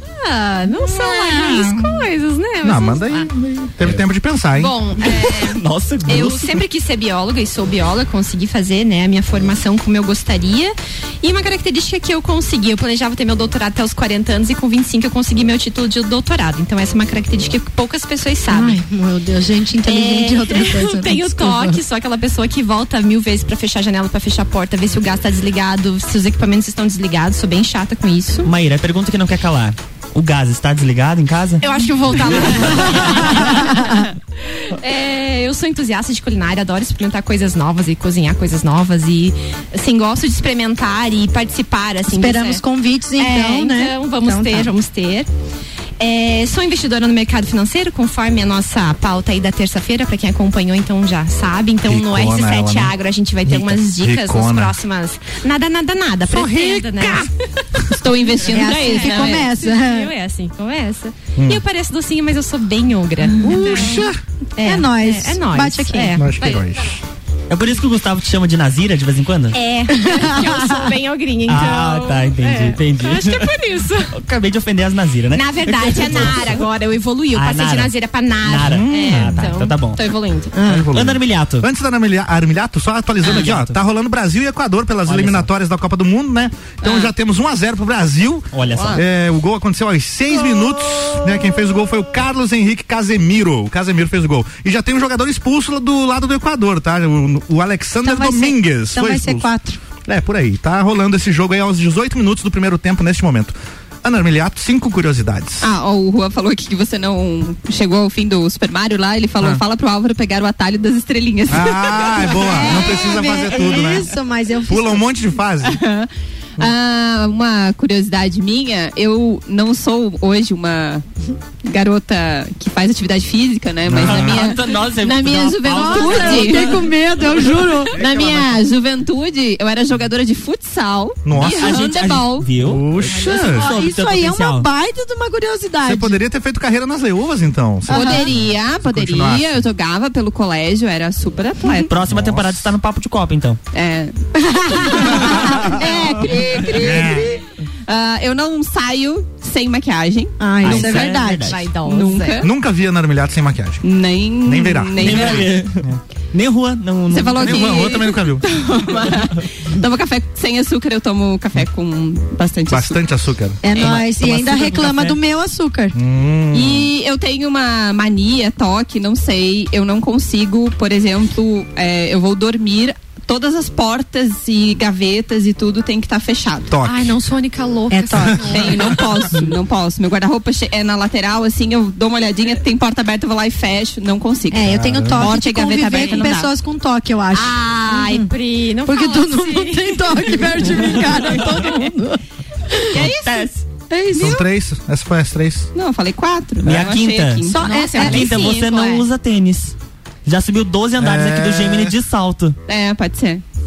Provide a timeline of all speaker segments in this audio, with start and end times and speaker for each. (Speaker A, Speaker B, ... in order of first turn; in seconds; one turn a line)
Speaker A: 0.2-3.3
Speaker B: 1.4-1.9
Speaker B: 2.6-4.7
Speaker A: 4.5-18.8
Speaker C: 5.1-6.6
Speaker D: 18.5-21.8
Speaker A: 19.8-28.5
Speaker C: 28.4-31.7
Speaker A: 31.6-33.7
Speaker D: 32.7-34.1
Speaker A: 34.7-42.6
Speaker D: 42.1-44.7
Speaker A: 43.2-45.3
Speaker A: 46.0-57.3
Speaker B: 51.8-52.9
Speaker B: 53.4-54.8
Speaker B: 56.3-57.3
Speaker E: 57.9-59.5
Speaker A: 58.5-64.0
Speaker D: 58.5-60.1
Speaker B: 61.4-61.6
Speaker B: 63.4-64.2
Speaker A: 64.6-66.7
Speaker D: 64.6-66.2
Speaker B: 66.2-67.0
Speaker C: 67.5-69.6
Speaker A: 69.5-74.2
Speaker D: 69.9-70.9
Speaker C: 71.5-73.5
Speaker C: 74.1-76.6
Speaker A: 75.3-80.5
Speaker C: 77.3-80.0
Speaker B: 78.7-79.4
Speaker D: 80.5-80.9
Speaker B: 80.7-99.5
Speaker C: 80.9-81.7
Speaker C: 83.2-83.8
Speaker C: 85.0-85.5
Speaker E: 86.8-87.1
Speaker C: 88.5-89.0
Speaker D: 98.0-99.8
Speaker B: 100.0-105.7
Speaker E: 105.6-113.0
Speaker B: 111.5-114.1
Speaker D: 112.3-115.1
Speaker B: 114.7-115.8
Speaker E: 115.6-121.0
Speaker E: 121.6-126.9
Speaker B: 123.9-124.5
Speaker C: 123.9-126.8
Speaker D: 125.6-128.0
Speaker E: 127.9-132.5
Speaker B: 131.2-131.9
Speaker C: 131.4-134.7
Speaker B: 132.6-133.7
Speaker D: 133.1-136.2
Speaker B: 135.8-139.6
Speaker D: 137.9-138.3
Speaker E: 137.9-141.9
Speaker C: 141.9-143.6
Speaker B: 142.1-142.6
Speaker E: 143.7-150.4
Speaker D: 144.4-147.1
Speaker B: 146.8-147.2
Speaker D: 150.4-151.6
Speaker C: 150.6-151.6
Speaker A: 150.7-152.4
Speaker E: 151.8-152.5
Speaker B: 152.4-153.8
Speaker E: 153.8-155.6
Speaker B: 154.4-156.0
Speaker C: 155.0-157.9
Speaker E: 157.1-163.0
Speaker B: 157.4-158.4
Speaker B: 162.7-163.6
Speaker D: 163.6-165.9
Speaker C: 163.8-165.1
Speaker B: 165.9-166.9
Speaker E: 166.5-176.7
Speaker B: 176.7-177.1
Speaker A: 176.8-179.0
Speaker D: 177.9-178.7
Speaker E: 178.5-186.5
Speaker D: 184.5-188.3
Speaker B: 184.7-185.3
Speaker A: 185.9-186.3
Speaker A: 187.3-191.4
Speaker D: 188.8-193.0
Speaker E: 192.9-193.5
Speaker C: 193.0-193.6
Speaker D: 193.9-194.4
Speaker B: 194.1-195.7
Speaker E: 195.7-197.6
Speaker C: 196.6-199.7
Speaker D: 197.5-198.5
Speaker A: 197.6-199.1
Speaker C: 200.2-202.6
Speaker B: 201.0-201.9
Speaker E: 202.7-203.4